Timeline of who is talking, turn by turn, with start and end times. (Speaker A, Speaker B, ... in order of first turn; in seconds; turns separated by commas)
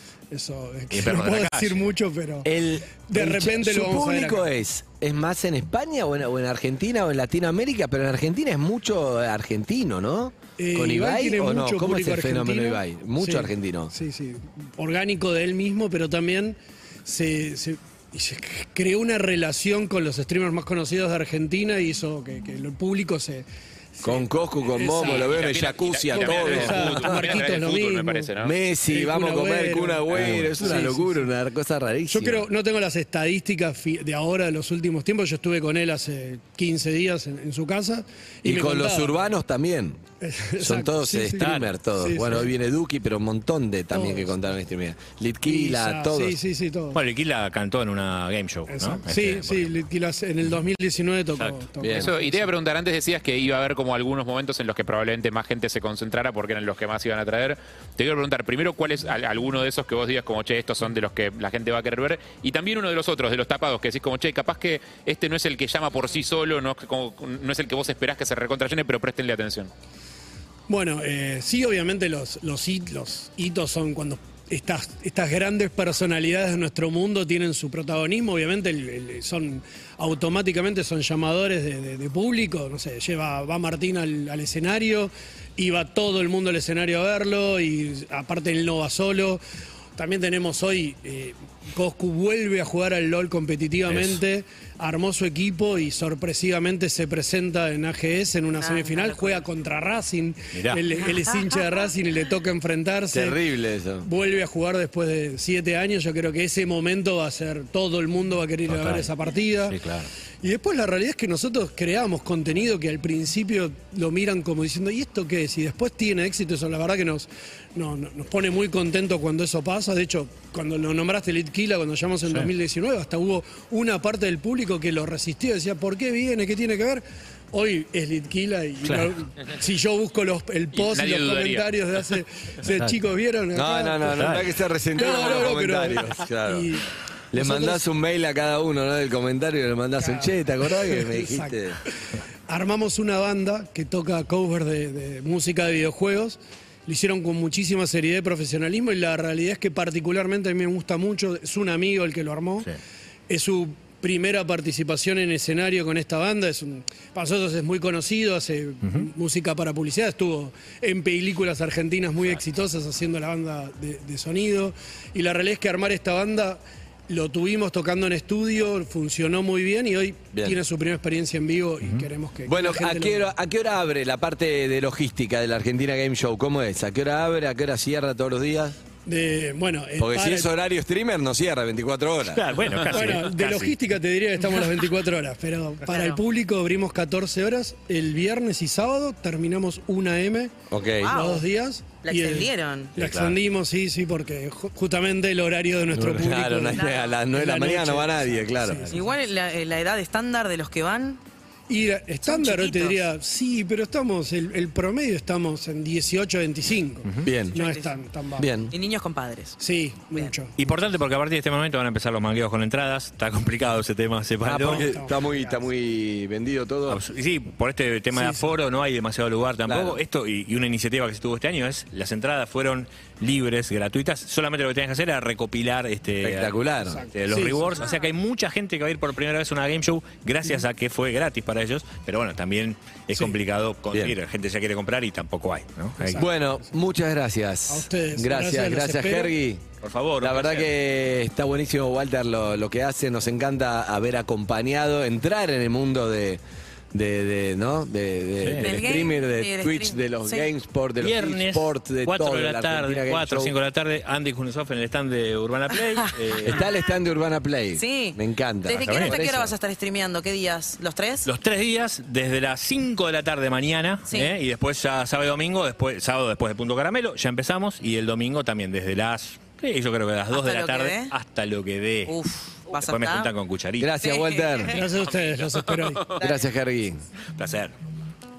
Speaker A: 0.3-2.5, Speaker B: 0.9-1.9, Speaker C: 2.4-13.9, Speaker A: 3.0-4.5, Speaker A: 10.6-25.2, Speaker C: 24.0-27.5, Speaker D: 25.0-28.6, Speaker A: 26.1-28.3, Speaker C: 28.4-32.5, Speaker A: 28.9-31.3, Speaker B: 30.1-30.7, Speaker A: 32.1-39.1, Speaker C: 38.4-40.0, Speaker A: 40.2-42.5, Speaker C: 40.6-46.4, Speaker B: 41.4-41.8, Speaker A: 43.9-44.5, Speaker A: 45.4-47.0, Speaker B: 46.9-49.8, Speaker A: 48.7-52.5, Speaker B: 51.3-51.6, Speaker C: 51.8-52.1, Speaker D: 51.9-69.7, Speaker A: 70.7-89.4, Speaker A: 89.9-103.4, Speaker B: 93.8-94.2, Speaker E: 98.5-99.5, Speaker B: 100.5-100.8, Speaker E: 101.0-101.6, Speaker C: 103.1-104.1, Speaker A: 104.0-109.8, Speaker B: 108.7-109.1, Speaker B: 109.6-110.1, Speaker A: 110.4-134.3, Speaker B: 128.8-129.1, Speaker D: 130.7-131.7, Speaker B: 132.6-133.0, Speaker C: 133.5-136.8, Speaker B: 134.0-134.5, Speaker A: 134.9-136.8, Speaker C: 137.3-141.8, Speaker A: 137.3-137.8, Speaker A: 140.0-141.6, Speaker A: 142.5-152.7, Speaker A: 153.3-173.3, Speaker B: 158.8-159.1, Speaker C: 170.3-170.6, Speaker B: 171.8-172.1, Speaker C: 172.4-178.8, Speaker A: 179.1-180.5, Speaker C: 180.0-182.4, Speaker B: 182.2-183.7, Speaker A: 182.8-190.5, Speaker E: 185.8-186.2, Speaker C: 190.7-191.1, Speaker E: 191.0-191.5, Speaker A: 191.1-199.1, Speaker E: 192.0-193.0, Speaker B: 193.0-193.4, Speaker C: 195.9-199.1, Speaker E: 196.7-197.3, Speaker E: 198.9-201.2, Speaker A: 201.7-208.5, Speaker E: 202.2-203.1, Speaker C: 207.2-207.6, Speaker E: 207.5-208.0, Speaker C: 208.3-208.7, Speaker E: 208.6-209.6, Speaker A: 209.6-210.5, Speaker B: 210.6-214.9, Speaker C: 214.4-217.0, Speaker A: 214.6-215.7, Speaker B: 216.9-236.3, Speaker A: 218.1-218.5, Speaker C: 219.7-220.0, Speaker C: 226.2-227.0, Speaker A: 226.9-227.8, Speaker A: 236.0-236.7, Speaker C: 236.2-239.6, Speaker A: 237.7-239.4, Speaker B: 239.8-240.7, Speaker C: 240.2-253.5, Speaker B: 248.4-249.0, Speaker E: 248.5-250.5, Speaker B: 251.0-256.7, Speaker C: 256.4-259.5, Speaker E: 257.7-261.3, Speaker B: 258.7-259.5, Speaker B: 261.2-272.2, Speaker E: 264.1-264.3, Speaker E: 270.3-271.1, Speaker E: 272.1-273.3, Speaker B: 272.7-274.0, Speaker C: 273.8-274.8, Speaker E: 274.0-274.8, Speaker D: 274.6-276.2, Speaker A: 274.7-276.1, Speaker C: 276.2-277.0, Speaker B: 277.4-277.7